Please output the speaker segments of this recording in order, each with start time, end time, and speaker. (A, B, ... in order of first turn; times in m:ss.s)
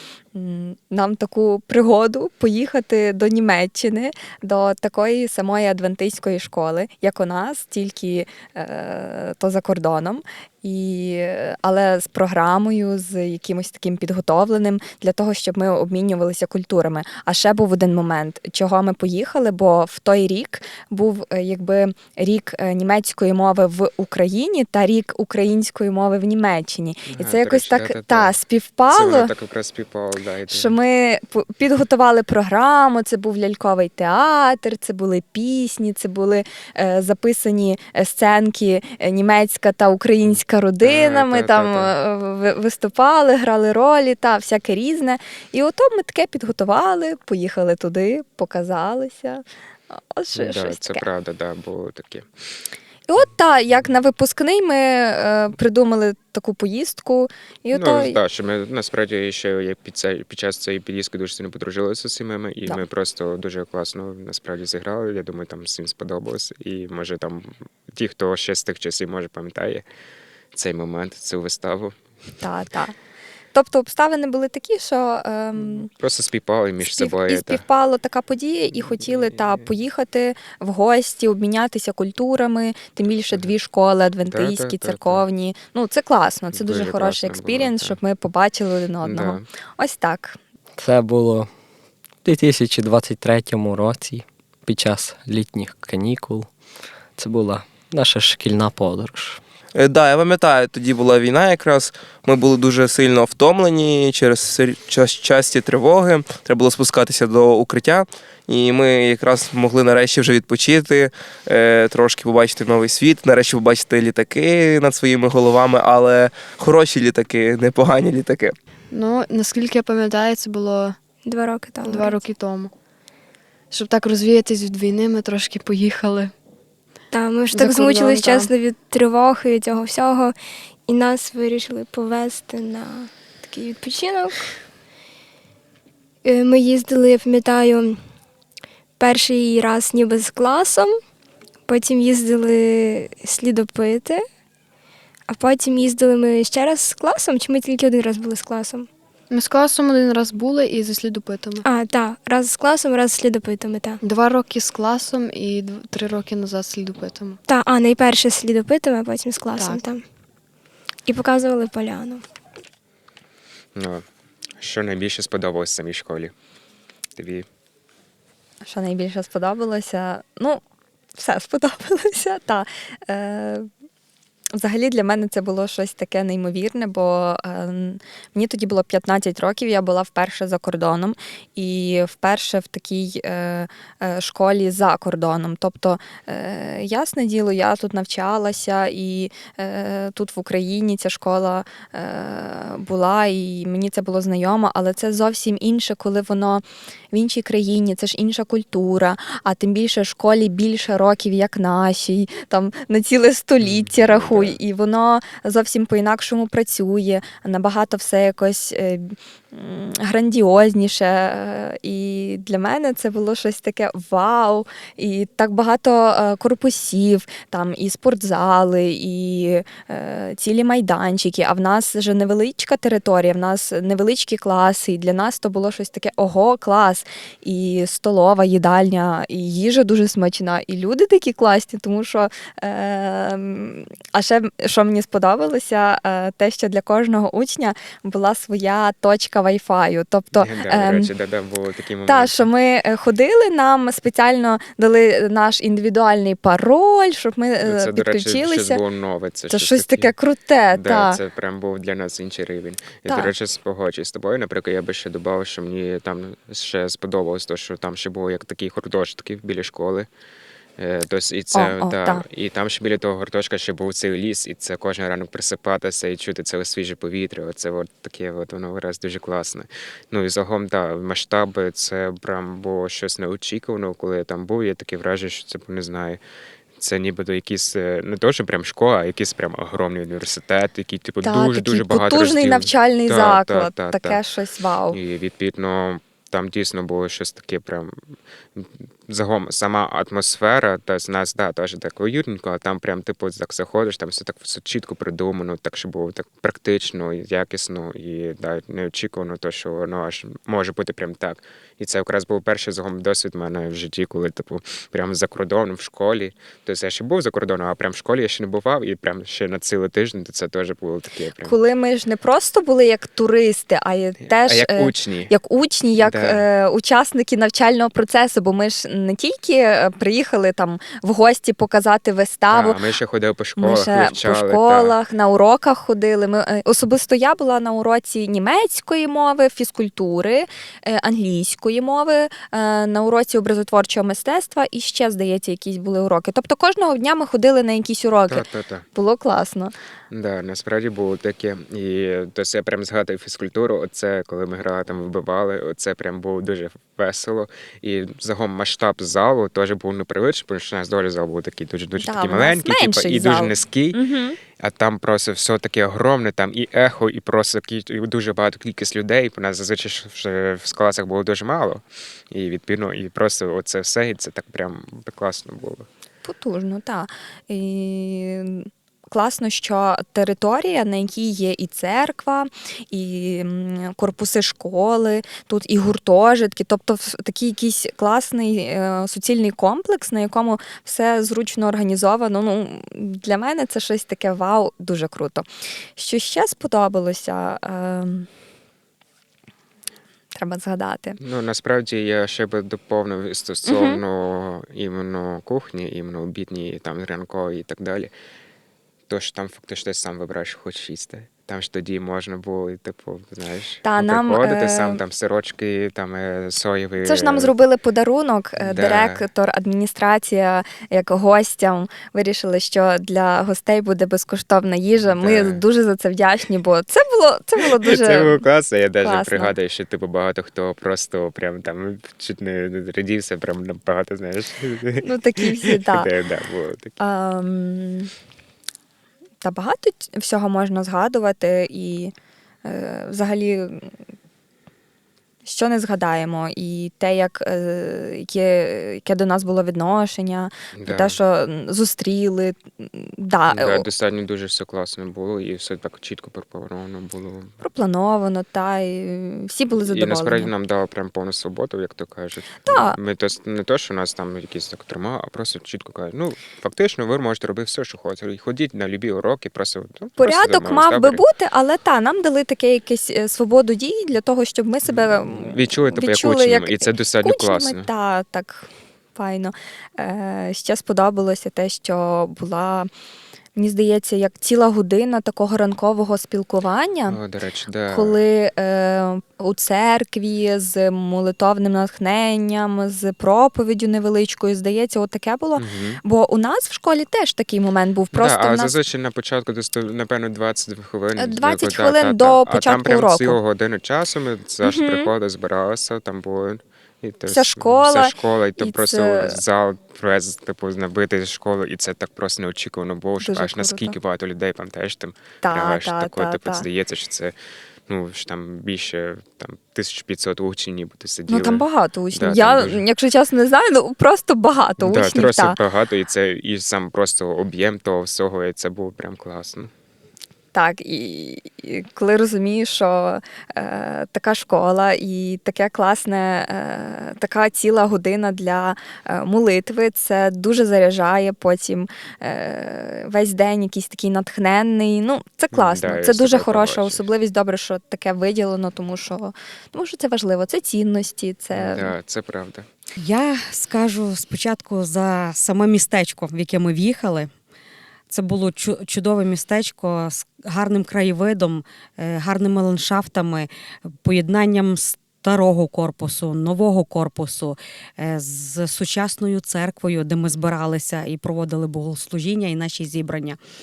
0:00.3-0:29.3 A
0:27.1-0:28.4 B
0:28.9-0:30.8 B
0:30.5-0:51.0 A
0:40.2-0:41.9 B
0:50.3-0:52.3 B
0:53.1-0:58.2 A
0:57.7-1:09.8 B
1:10.5-1:12.0 B
1:12.4-1:12.9 A
1:13.5-1:15.9 A
1:15.6-1:17.6 B
1:16.8-1:30.4 A
1:18.8-1:19.6 B
1:24.3-1:25.2 B
1:26.5-1:28.0 B
1:29.0-1:29.4 B
1:30.8-1:31.5 C
1:32.2-1:36.5 C
1:37.1-1:39.4 C
1:39.7-1:58.6 D
1:58.9-2:01.0 E
2:01.2-2:02.2 F
2:01.8-2:02.7 E
2:03.7-2:06.3 E
2:07.1-2:10.3 F
2:07.5-2:08.5 E
2:10.8-2:14.5 F
2:16.2-2:18.0 F
2:19.0-2:21.0 F
2:21.7-2:24.2 F
2:25.3-2:28.9 F
2:29.3-2:31.6 E
2:31.6-2:34.0 F
2:34.0-2:37.4 E
2:37.5-2:40.0 F
2:41.0-2:42.2 F
2:43.7-2:44.0 B
2:44.6-2:46.3 B
2:47.2-2:47.4 B
2:48.6-2:50.6 A
2:51.2-2:53.7 A
2:54.6-4:01.1 A
3:23.6-3:24.6 B
4:00.3-4:02.4 B
4:02.0-4:08.8 A
4:07.6-4:10.1 B
4:09.5-4:11.2 A
4:10.7-4:20.1 B
4:20.8-4:36.2 B
4:21.5-4:22.2 A
4:36.8-4:44.2 B
4:41.2-4:45.0 A
4:44.9-4:47.9 B
4:48.6-5:11.6 B
5:11.4-5:22.8 A
5:14.2-5:15.3 B
5:16.0-5:16.4 B
5:22.5-5:25.0 B
5:23.6-5:39.7 A
5:38.3-5:38.8 B
5:40.1-5:54.0 B
5:52.0-5:54.4 A
5:54.6-6:05.9 B
6:06.2-6:25.4 A
6:26.0-6:28.3 A
6:30.3-6:31.2 A
6:31.2-6:38.1 B
6:33.7-6:34.0 A
6:39.1-6:47.5 B
6:43.8-6:45.0 A
6:47.0-6:58.4 A
6:48.6-6:49.2 B
6:55.0-6:55.6 B
6:57.7-7:07.0 B
6:59.0-6:59.5 A
7:05.0-7:06.1 A
7:07.0-7:08.1 A
7:09.4-7:12.1 A
7:12.6-7:13.9 A
7:15.4-7:23.8 A
7:20.8-7:21.2 B
7:23.5-7:27.5 B
7:27.6-7:30.5 A
7:29.8-7:41.2 B
7:32.6-7:33.0 A
7:40.2-7:52.9 A
7:44.8-7:47.9 B
7:53.6-7:57.2 A
7:57.1-7:58.2 B
7:57.9-8:08.7 A
8:05.6-8:06.0 B
8:08.1-8:27.3 B
8:11.2-8:13.4 A
8:14.6-8:15.1 A
8:17.3-8:19.4 A
8:23.2-8:24.0 A
8:25.4-8:26.6 A
8:27.9-8:32.8 B
8:31.3-8:35.6 A
8:34.8-8:39.7 B
8:40.5-9:01.9 A
8:55.5-8:57.0 B
9:01.5-9:02.7 B
9:03.0-9:07.3 G
9:08.1-9:23.4 G